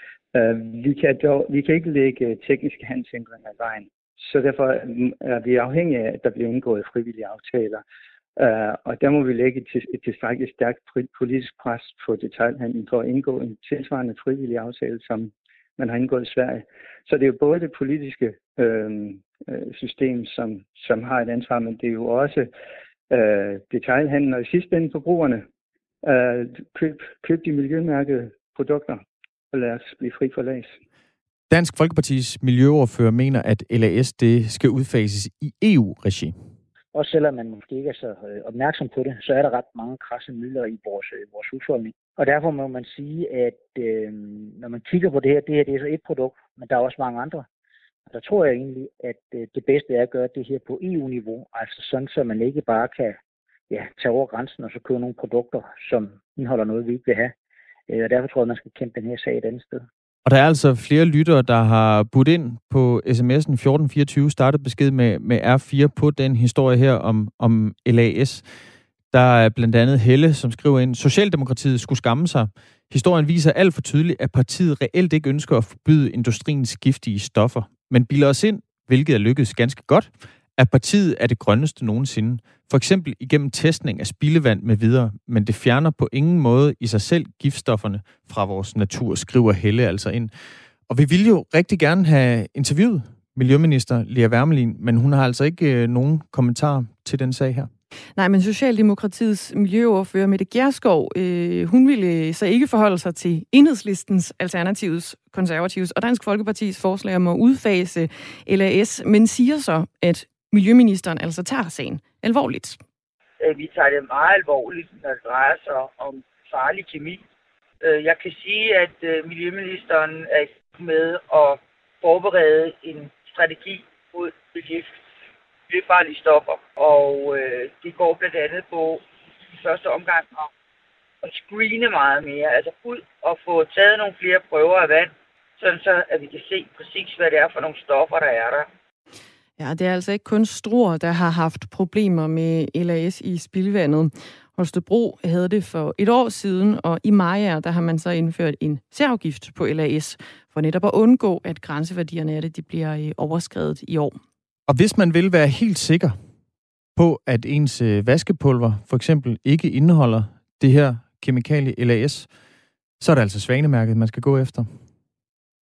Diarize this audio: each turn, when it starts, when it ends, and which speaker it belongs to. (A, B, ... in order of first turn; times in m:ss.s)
0:00.3-0:07.8 A
0:08.4-0:22.5 A
0:23.1-0:25.4 A
0:26.0-0:30.8 A
0:31.5-0:36.3 B
0:36.9-0:47.4 C
0:48.1-0:53.2 C
0:53.7-0:57.3 C
0:57.9-0:59.8 C
1:00.2-1:08.4 B
1:09.1-1:30.3 B
1:30.9-1:37.7 B
1:38.2-1:52.8 D
1:53.4-1:57.2 E
1:57.8-2:04.9 E
2:05.7-2:10.5 E
2:11.2-2:18.7 E
2:19.6-2:34.2 D
2:34.7-2:36.2 B
2:37.0-2:42.3 B
2:43.0-2:44.7 B